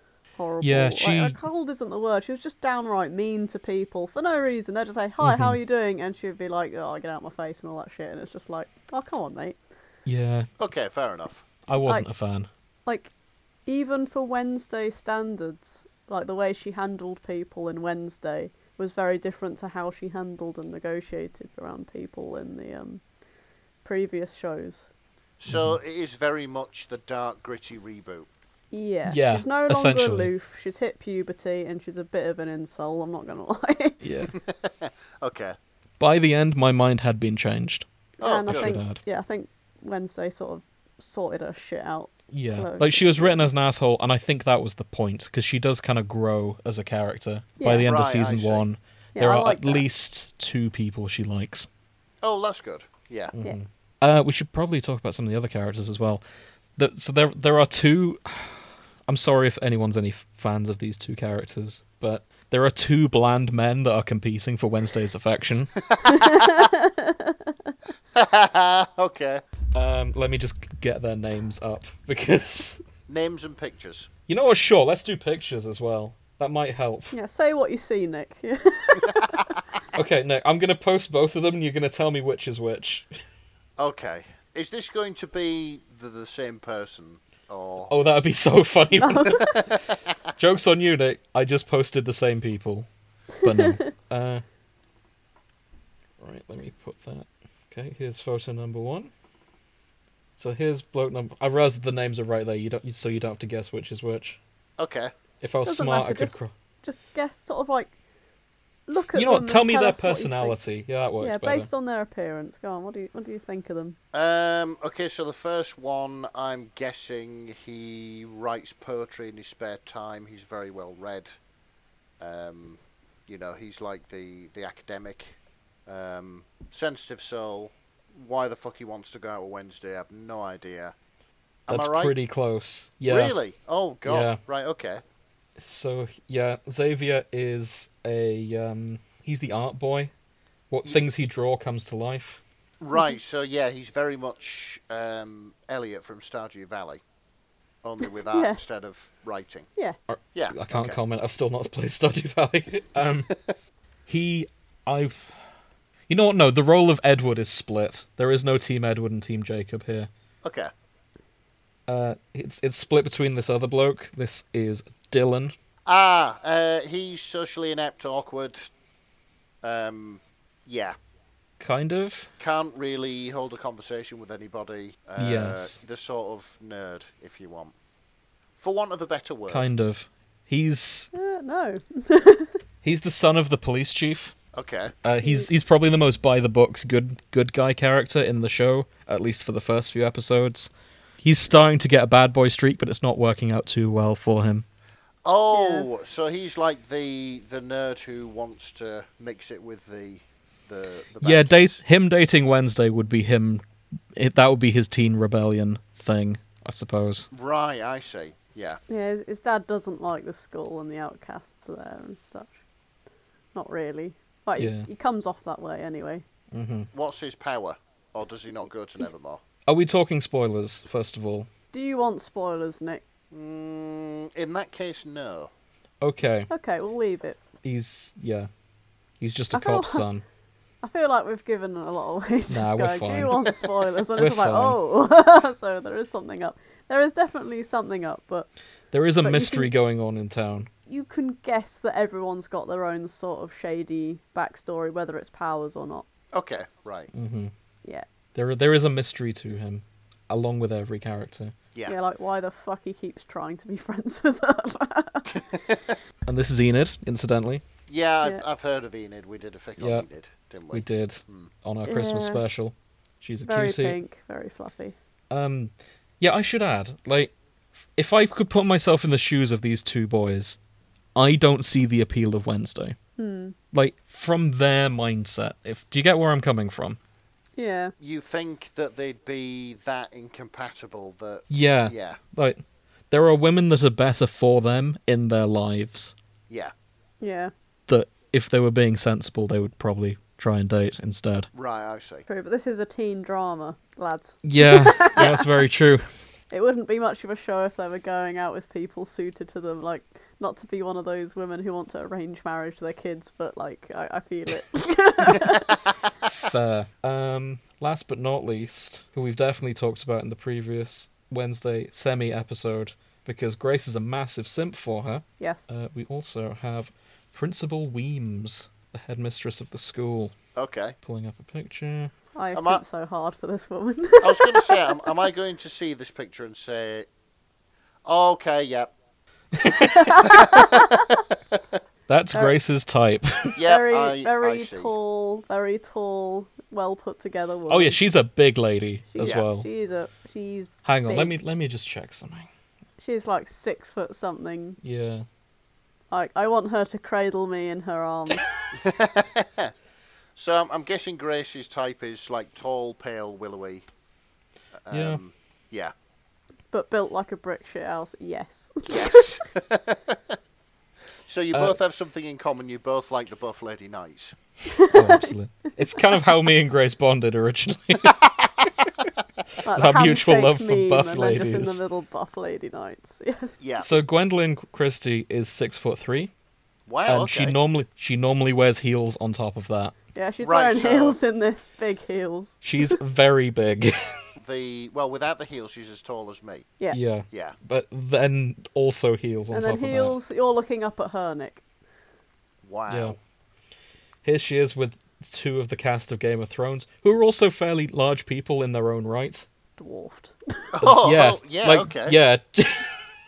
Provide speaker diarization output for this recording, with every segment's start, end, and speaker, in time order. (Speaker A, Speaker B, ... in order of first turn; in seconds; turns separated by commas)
Speaker A: 0.3-9.6, Speaker B: 0.6-1.4, Speaker B: 5.2-5.6, Speaker B: 10.1-10.5, Speaker C: 10.6-11.4, Speaker B: 11.7-12.5, Speaker A: 12.8-13.1, Speaker A: 13.7-23.0, Speaker A: 23.8-24.9, Speaker C: 25.4-28.3, Speaker B: 25.5-25.8, Speaker A: 28.7-34.0, Speaker B: 29.1-30.3, Speaker B: 34.0-34.3, Speaker C: 34.4-35.6, Speaker B: 36.0-37.9, Speaker C: 38.2-38.8, Speaker A: 38.2-43.5, Speaker B: 38.5-39.0, Speaker B: 42.3-51.7, Speaker A: 47.6-47.9, Speaker C: 47.8-48.6, Speaker A: 49.1-49.8, Speaker C: 52.2-53.3, Speaker B: 53.3-56.2, Speaker B: 56.8-65.7, Speaker C: 65.9-66.7, Speaker A: 66.0-67.7, Speaker C: 68.1-69.4, Speaker B: 69.7-72.8, Speaker C: 73.1-74.1, Speaker B: 74.3-77.1, Speaker A: 77.1-79.5, Speaker C: 79.0-79.3, Speaker B: 79.9-83.1, Speaker C: 83.8-87.9, Speaker B: 87.9-89.6, Speaker A: 89.0-89.5, Speaker C: 89.5-90.0, Speaker B: 90.4-92.9, Speaker B: 93.4-94.4, Speaker A: 93.4-93.8, Speaker B: 96.2-99.1, Speaker B: 100.4-104.4, Speaker C: 104.8-105.1, Speaker B: 105.4-106.5, Speaker A: 105.7-107.9, Speaker A: 108.9-110.6, Speaker B: 109.1-111.7, Speaker A: 111.2-114.0, Speaker C: 114.1-121.3, Speaker C: 122.2-130.9, Speaker C: 131.7-132.1, Speaker B: 131.7-133.3, Speaker C: 133.1-135.0, Speaker B: 134.0-134.4, Speaker B: 135.6-140.1, Speaker B: 140.7-142.4, Speaker C: 142.8-147.0, Speaker A: 142.9-143.2, Speaker C: 147.8-149.7, Speaker A: 148.3-148.6, Speaker B: 150.1-153.3, Speaker C: 150.3-151.0, Speaker B: 154.1-155.4, Speaker B: 156.1-160.1, Speaker C: 160.4-160.7, Speaker B: 161.9-165.5, Speaker C: 165.8-168.7, Speaker C: 169.6-170.9, Speaker B: 171.6-172.3, Speaker C: 172.4-177.7, Speaker B: 175.2-175.8, Speaker C: 178.6-179.7, Speaker B: 179.5-181.1, Speaker A: 181.1-182.6, Speaker B: 182.8-184.3, Speaker C: 184.5-184.9, Speaker B: 185.0-190.7, Speaker B: 191.2-194.6, Speaker C: 195.2-201.8, Speaker A: 195.5-195.8, Speaker B: 201.2-203.6, Speaker B: 204.1-207.3, Speaker C: 207.3-208.8, Speaker A: 208.9-212.6, Speaker A: 213.5-216.2, Speaker B: 214.6-214.9, Speaker B: 216.5-216.9, Speaker C: 216.9-219.4, Speaker B: 219.7-221.5, Speaker A: 221.7-223.0, Speaker C: 223.3-225.5, Speaker B: 226.0-226.5, Speaker A: 226.5-227.4, Speaker B: 227.6-228.5, Speaker B: 229.2-230.2, Speaker A: 229.5-230.0, Speaker A: 230.8-238.5, Speaker B: 232.5-233.5, Speaker B: 234.1-234.8, Speaker B: 238.9-240.7, Speaker A: 239.2-239.7, Speaker A: 240.9-246.1, Speaker C: 246.3-247.1, Speaker B: 247.1-247.5, Speaker B: 248.3-251.5, Speaker A: 251.8-255.4, Speaker C: 255.3-256.0, Speaker B: 256.3-257.6, Speaker C: 257.9-261.5, Speaker B: 259.8-260.0, Speaker B: 260.7-264.0, Speaker A: 261.9-262.4, Speaker A: 263.4-264.9, Speaker B: 265.3-267.3, Speaker B: 267.9-270.6, Speaker B: 271.1-272.9, Speaker A: 273.2-273.5, Speaker B: 273.7-277.0, Speaker A: 277.6-277.9, Speaker C: 278.0-282.2, Speaker B: 281.5-282.6, Speaker B: 283.1-286.1, Speaker A: 287.2-287.5, Speaker B: 287.9-291.5, Speaker C: 291.5-292.2, Speaker A: 292.3-295.6, Speaker B: 294.4-296.1, Speaker A: 296.5-305.8, Speaker B: 306.2-320.3, Speaker C: 320.5-320.9, Speaker B: 321.0-322.1, Speaker A: 322.4-325.1, Speaker C: 322.5-322.8, Speaker C: 324.2-327.1, Speaker C: 328.0-328.9, Speaker B: 329.5-330.4, Speaker A: 329.9-331.1, Speaker C: 330.2-331.8, Speaker B: 332.1-333.5, Speaker C: 333.6-334.9, Speaker A: 333.6-338.0, Speaker B: 337.7-339.7, Speaker A: 339.1-341.3, Speaker B: 340.8-342.5, Speaker A: 343.0-344.8, Speaker B: 344.8-345.2, Speaker A: 346.1-348.5, Speaker C: 348.7-349.7, Speaker C: 350.4-353.8, Speaker C: 354.8-355.9, Speaker B: 354.9-355.2, Speaker A: 356.7-359.3, Speaker C: 358.9-360.4, Speaker C: 361.2-364.4, Speaker A: 364.7-365.3, Speaker B: 364.9-368.2, Speaker A: 365.9-366.4, Speaker C: 368.1-368.9, Speaker A: 369.6-373.6, Speaker B: 369.7-371.8, Speaker C: 373.6-373.9, Speaker B: 373.8-376.3, Speaker C: 376.9-377.6, Speaker B: 377.1-379.9, Speaker A: 380.1-382.9, Speaker C: 380.4-381.2, Speaker B: 382.6-384.1, Speaker C: 384.4-386.7, Speaker B: 386.9-390.1, Speaker C: 387.3-387.6, Speaker A: 389.5-391.6, Speaker C: 392.6-393.2, Speaker B: 392.9-393.2, Speaker B: 394.2-399.5, Speaker A: 399.8-400.8, Speaker C: 400.7-402.1, Speaker B: 400.8-402.9